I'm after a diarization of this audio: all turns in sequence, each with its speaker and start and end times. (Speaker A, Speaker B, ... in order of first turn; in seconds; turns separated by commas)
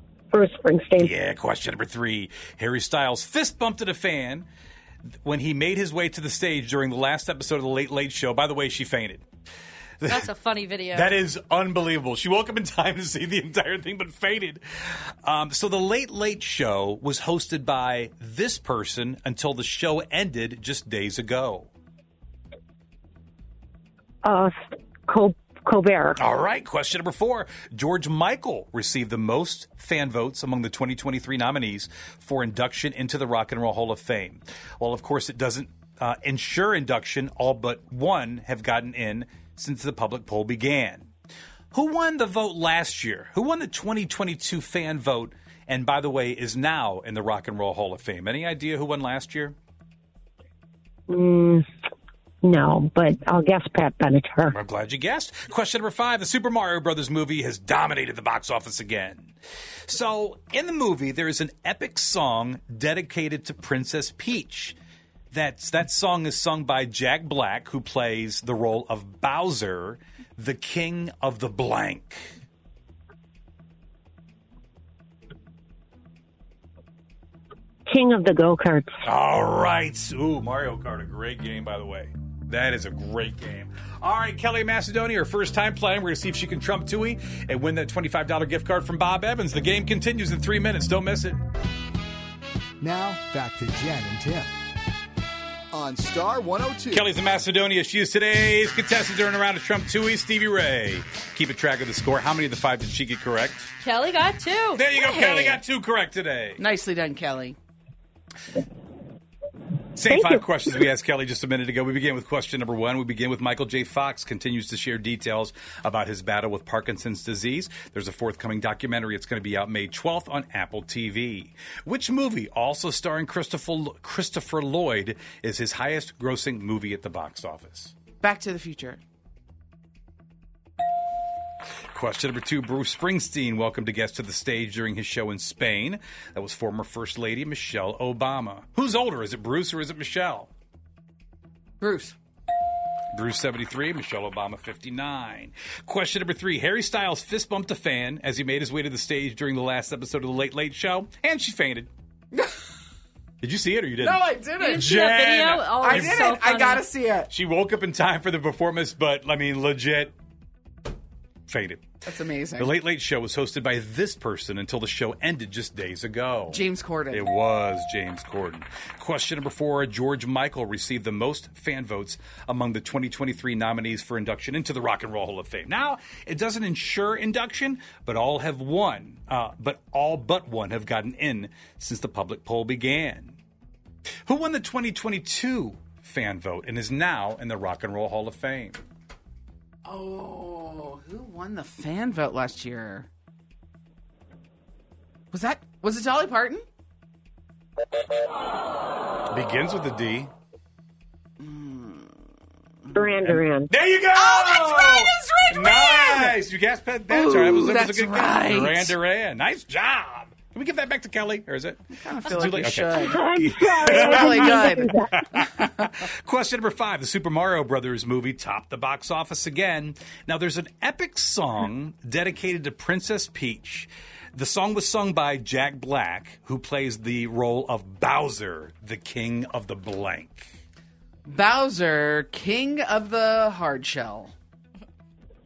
Speaker A: 0.3-1.1, Speaker B: 1.0-4.5, Speaker B: 5.2-9.2, Speaker B: 10.0-10.3, Speaker C: 10.1-11.1, Speaker B: 10.9-14.6, Speaker B: 15.2-21.7, Speaker A: 24.2-26.2, Speaker B: 26.2-41.1, Speaker B: 41.7-49.5, Speaker A: 51.1-51.6, Speaker A: 52.4-54.5, Speaker B: 54.5-59.3, Speaker B: 59.9-64.8, Speaker B: 65.3-72.3, Speaker A: 77.9-78.9, Speaker B: 79.0-91.4, Speaker D: 92.8-94.5, Speaker D: 95.7-97.1, Speaker B: 96.9-103.7, Speaker C: 103.8-104.9, Speaker B: 104.7-106.6, Speaker E: 104.9-105.6, Speaker E: 106.6-107.6, Speaker B: 110.0-127.9, Speaker A: 110.1-110.4, Speaker E: 128.2-129.0, Speaker B: 131.9-140.5, Speaker E: 141.8-142.2, Speaker B: 143.1-151.9, Speaker B: 153.4-156.3, Speaker E: 154.0-155.0, Speaker C: 154.6-156.9, Speaker E: 155.8-157.3, Speaker B: 157.3-160.1, Speaker B: 161.5-161.8, Speaker E: 162.1-162.7, Speaker B: 162.6-183.4, Speaker E: 166.5-167.3, Speaker B: 184.3-188.8, Speaker E: 189.8-193.1, Speaker E: 195.3-196.6, Speaker B: 199.3-200.3, Speaker E: 201.4-202.1, Speaker A: 202.9-203.7, Speaker B: 203.2-230.5, Speaker E: 204.1-206.4, Speaker E: 207.1-208.9, Speaker E: 212.0-213.2, Speaker A: 213.0-215.1, Speaker E: 213.8-214.9, Speaker E: 231.2-234.3